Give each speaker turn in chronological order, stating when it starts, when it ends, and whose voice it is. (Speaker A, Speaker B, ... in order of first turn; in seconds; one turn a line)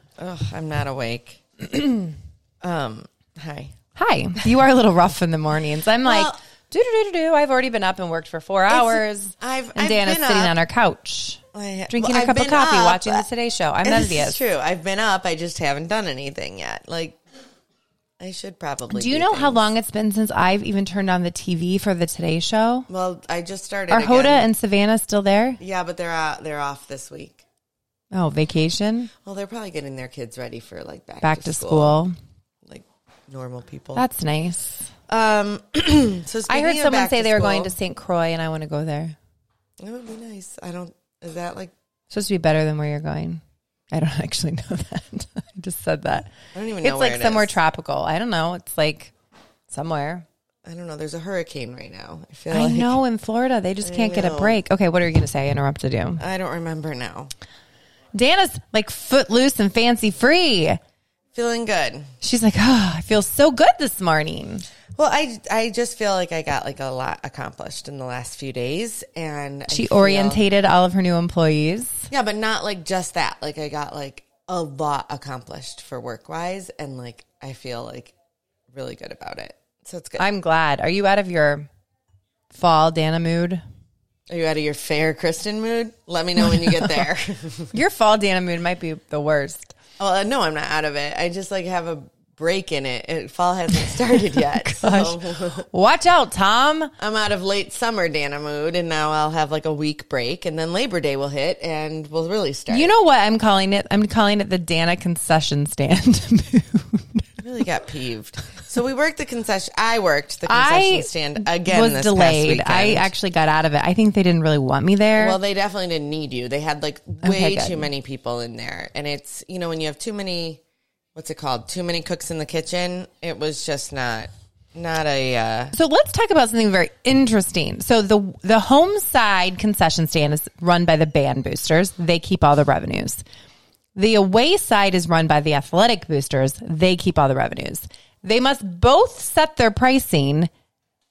Speaker A: 0.2-1.4
Speaker A: 2.6-3.7
Speaker B: 4.0-14.4
Speaker A: 6.0-6.4
Speaker A: 8.7-10.6
Speaker A: 11.5-13.3
Speaker A: 13.8-17.2
Speaker A: 18.2-19.7
Speaker B: 18.9-22.9
Speaker A: 22.9-24.5
Speaker B: 23.9-25.6
Speaker A: 25.6-27.4
Speaker B: 28.1-29.1
Speaker A: 29.2-32.0
Speaker B: 31.2-32.1
Speaker A: 32.6-34.0
Speaker B: 34.0-34.8
Speaker A: 35.1-37.7
Speaker B: 36.5-39.1
Speaker A: 39.8-41.7
Speaker B: 42.1-49.1
Speaker A: 46.5-47.6
Speaker B: 49.7-50.2
Speaker A: 50.7-53.0
Speaker B: 52.5-56.2
Speaker A: 53.8-54.6
Speaker A: 56.2-57.3
Speaker B: 58.1-60.8
Speaker A: 61.3-62.1
Speaker B: 62.2-64.7
Speaker A: 65.0-70.4
Speaker B: 69.7-72.0
Speaker A: 72.1-78.2
Speaker A: 78.7-80.2
Speaker B: 80.2-81.7
Speaker B: 82.5-83.6
Speaker A: 84.3-87.8
Speaker B: 87.7-89.8
Speaker A: 90.0-95.7
Speaker B: 93.8-96.9
Speaker A: 97.0-102.9
Speaker B: 102.7-107.4
Speaker A: 107.4-113.1
Speaker B: 110.5-115.4
Speaker A: 115.2-120.6
Speaker B: 117.2-117.9
Speaker A: 121.2-125.7
Speaker B: 125.7-133.2
Speaker B: 133.9-140.5